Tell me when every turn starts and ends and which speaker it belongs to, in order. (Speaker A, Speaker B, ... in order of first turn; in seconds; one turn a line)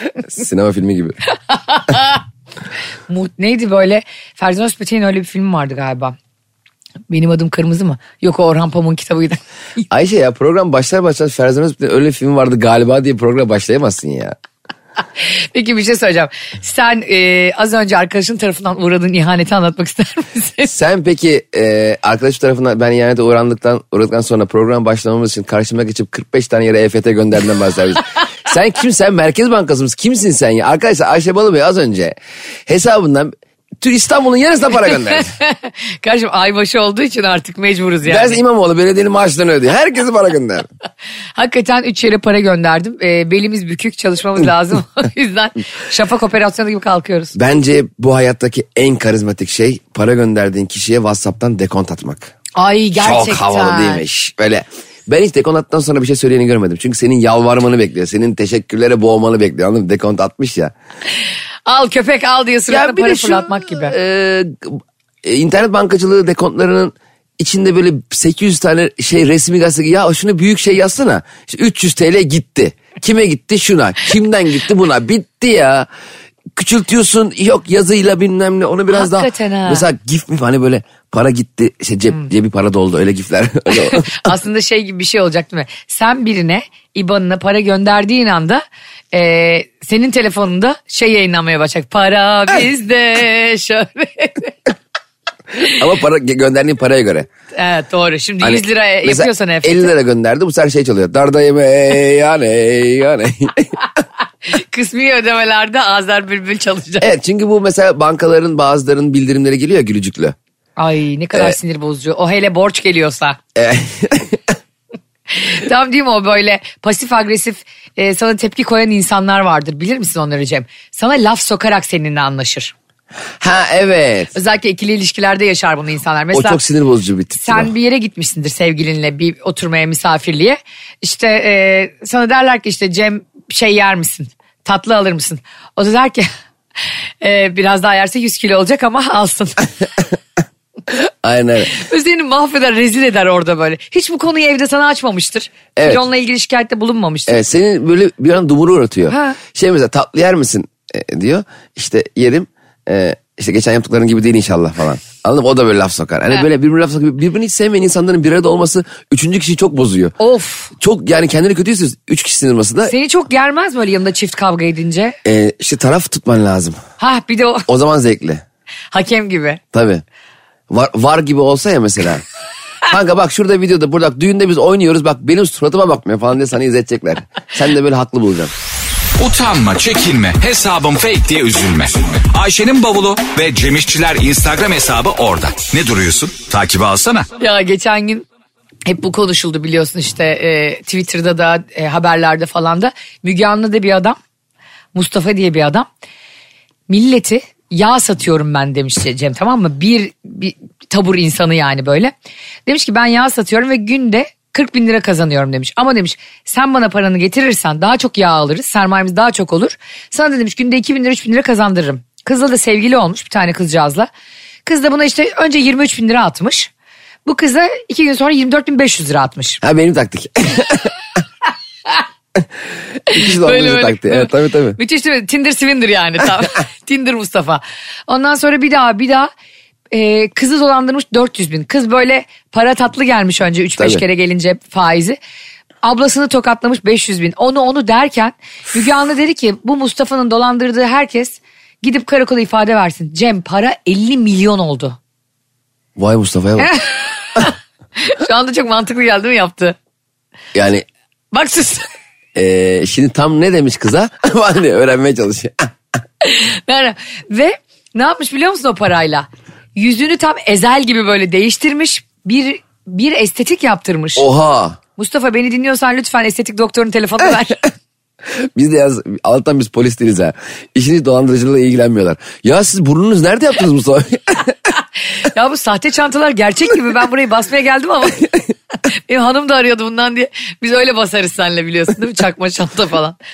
Speaker A: 0.2-1.2
Speaker B: 1.5-2.2
Speaker B: 3.1-6.2
Speaker B: 7.1-9.4
Speaker A: 9.9-14.3
Speaker B: 15.2-20.7
Speaker A: 20.7-32.1
Speaker A: 32.7-35.3
Speaker B: 34.9-38.4
Speaker A: 38.0-40.7
Speaker B: 41.4-47.3
Speaker A: 47.3-52.3
Speaker B: 52.5-54.0
Speaker A: 53.0-60.7
Speaker B: 61.6-64.0
Speaker A: 62.7-75.9
Speaker A: 76.5-84.3
Speaker B: 78.9-79.8
Speaker B: 83.9-94.5
Speaker A: 95.6-97.3
Speaker B: 97.5-99.9
Speaker A: 98.4-103.8
Speaker B: 104.4-107.1
Speaker A: 107.0-110.3
Speaker B: 110.8-113.4
Speaker A: 113.5-114.5
Speaker B: 115.3-122.7
Speaker A: 123.4-124.3
Speaker B: 124.3-126.6
Speaker A: 126.3-127.7
Speaker B: 127.4-136.3
Speaker B: 137.2-139.7
Speaker A: 141.2-141.8
Speaker B: 141.6-147.4
Speaker A: 145.8-146.0
Speaker A: 147.3-160.1
Speaker B: 149.1-149.4
Speaker B: 160.2-160.7
Speaker A: 160.8-162.9
Speaker B: 162.8-165.2
Speaker A: 165.2-166.8
Speaker B: 167.0-167.7
Speaker A: 167.7-168.4
Speaker B: 168.9-169.6
Speaker A: 169.7-170.0
Speaker A: 170.7-172.2
Speaker A: 172.9-178.5
Speaker C: 179.2-187.3
Speaker B: 187.4-188.2
Speaker B: 188.8-194.2
Speaker B: 194.9-195.9
Speaker B: 196.9-202.1
Speaker B: 202.7-214.1
Speaker B: 214.7-216.7
Speaker B: 217.2-219.6
Speaker A: 219.6-220.9
Speaker A: 223.1-224.8
Speaker B: 223.1-229.3
Speaker B: 229.9-235.2
Speaker A: 233.8-234.0
Speaker B: 235.8-245.0
Speaker A: 245.9-246.7
Speaker B: 246.6-249.8
Speaker A: 250.5-250.8
Speaker B: 251.3-251.9
Speaker A: 252.3-255.7
Speaker B: 256.2-264.2
Speaker A: 264.2-264.8
Speaker B: 265.0-267.6
Speaker A: 268.4-274.5
Speaker B: 275.2-278.3
Speaker B: 278.9-283.2